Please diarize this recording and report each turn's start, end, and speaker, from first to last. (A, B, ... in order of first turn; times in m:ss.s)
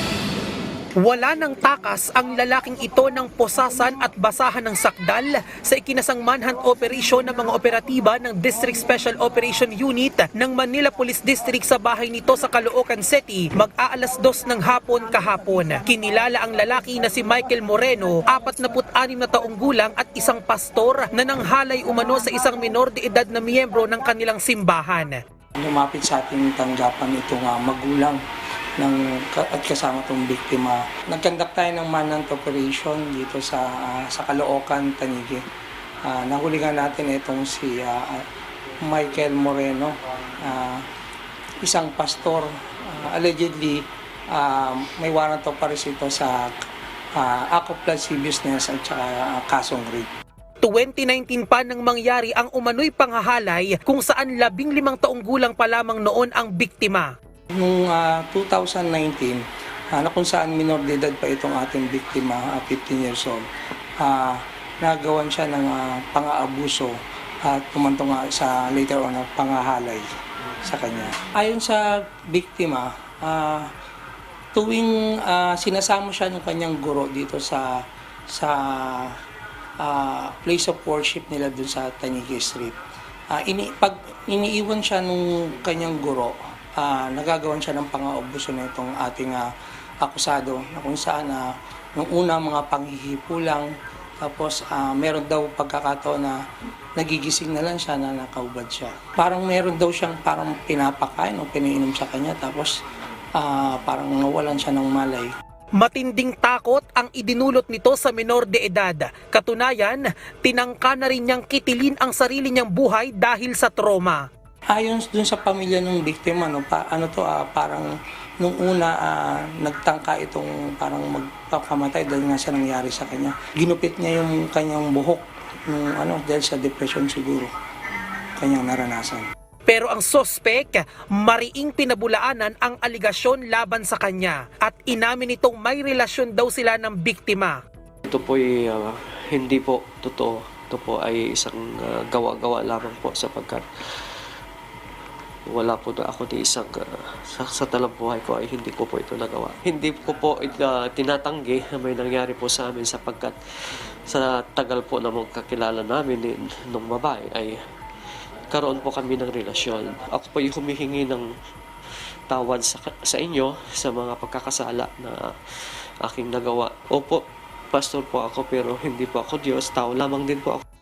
0:01.0-0:25.2 A
0:25.6-0:28.2 B
0:28.8-0:35.4 B
0:36.0-0:38.3 B
0:38.8-0:40.8 B
0:41.6-0:46.5 B
0:47.2-0:50.1 B
0:50.6-0:57.1 A
0:57.6-1:03.4 B
1:04.0-1:10.0 B
1:10.6-1:13.7 B
1:14.5-1:19.2 B
1:19.8-1:22.8 B
1:23.3-1:29.5 B
1:30.0-1:33.7 B
1:34.2-1:36.4 B
1:37.0-1:42.8 B
1:43.4-1:45.3 B
1:45.8-1:54.3 A
1:54.7-1:57.9 B
1:58.4-2:07.5 B
2:08.4-2:09.3 B
2:09.7-2:17.6 A
2:18.1-2:23.6 C
2:25.5-2:33.3 C
2:34.1-2:37.5 C
2:38.5-2:41.3 C
2:42.3-2:45.3 C
2:46.0-2:47.2 C
2:47.7-2:50.6 C